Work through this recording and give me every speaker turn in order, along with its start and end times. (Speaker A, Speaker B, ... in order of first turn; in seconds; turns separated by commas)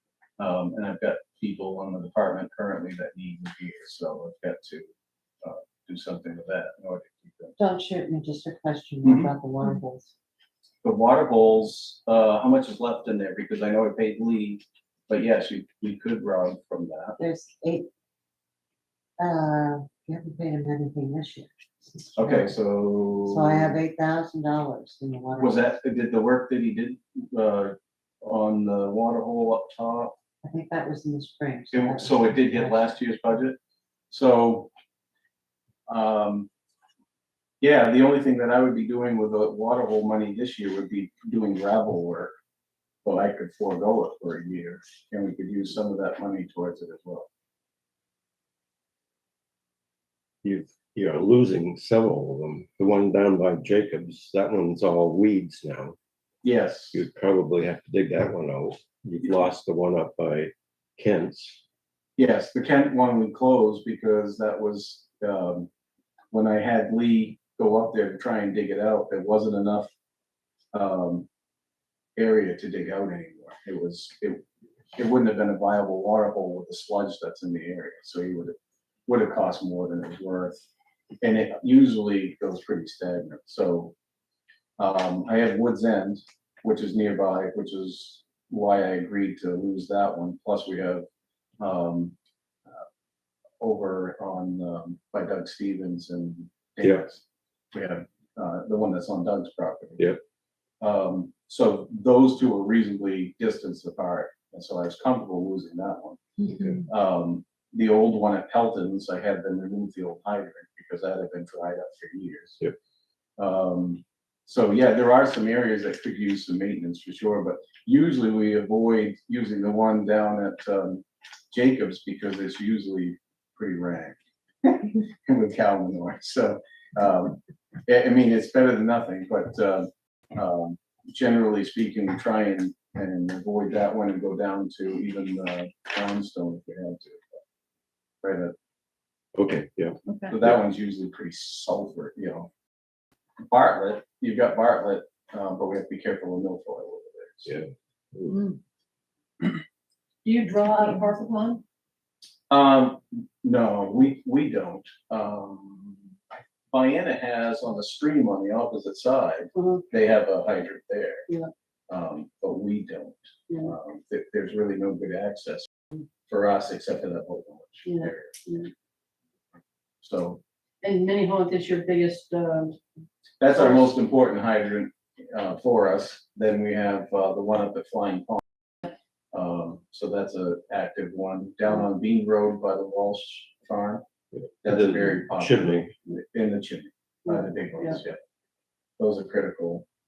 Speaker A: 0.4-4.9, Speaker A: 5.4-7.5, Speaker B: 7.6-10.1, Speaker A: 9.0-9.3, Speaker A: 10.8-17.2, Speaker B: 17.2-17.9, Speaker B: 19.2-22.5, Speaker A: 22.1-23.8, Speaker B: 23.2-25.7, Speaker A: 25.4-30.1, Speaker B: 30.4-32.9, Speaker A: 31.7-33.6, Speaker A: 34.1-34.7, Speaker A: 35.9-36.5, Speaker A: 37.6-42.3, Speaker A: 43.0-47.3, Speaker C: 50.4-56.0, Speaker A: 56.4-57.0, Speaker C: 56.9-61.6, Speaker A: 62.2-65.7, Speaker A: 66.3-69.9, Speaker A: 70.7-71.3, Speaker A: 72.2-74.4, Speaker A: 75.0-78.5, Speaker A: 79.1-80.6, Speaker A: 81.2-83.9, Speaker A: 84.8-91.0, Speaker A: 91.6-92.1, Speaker A: 93.6-100.1, Speaker A: 100.8-106.2, Speaker A: 106.8-112.6, Speaker A: 113.4-124.2, Speaker A: 124.7-137.4, Speaker A: 138.2-138.5, Speaker C: 139.3-140.5, Speaker A: 140.3-142.5, Speaker A: 143.5-147.6, Speaker C: 147.4-148.5, Speaker D: 150.2-151.6, Speaker A: 152.5-161.3, Speaker D: 159.5-159.8, Speaker A: 161.9-165.7, Speaker A: 166.2-168.4, Speaker D: 167.8-168.7, Speaker A: 170.0-170.4, Speaker D: 170.8-172.8, Speaker A: 173.4-178.4, Speaker D: 173.5-173.9, Speaker A: 179.3-184.0, Speaker C: 184.3-185.9, Speaker A: 184.6-188.2, Speaker D: 187.3-188.0, Speaker A: 189.0-189.8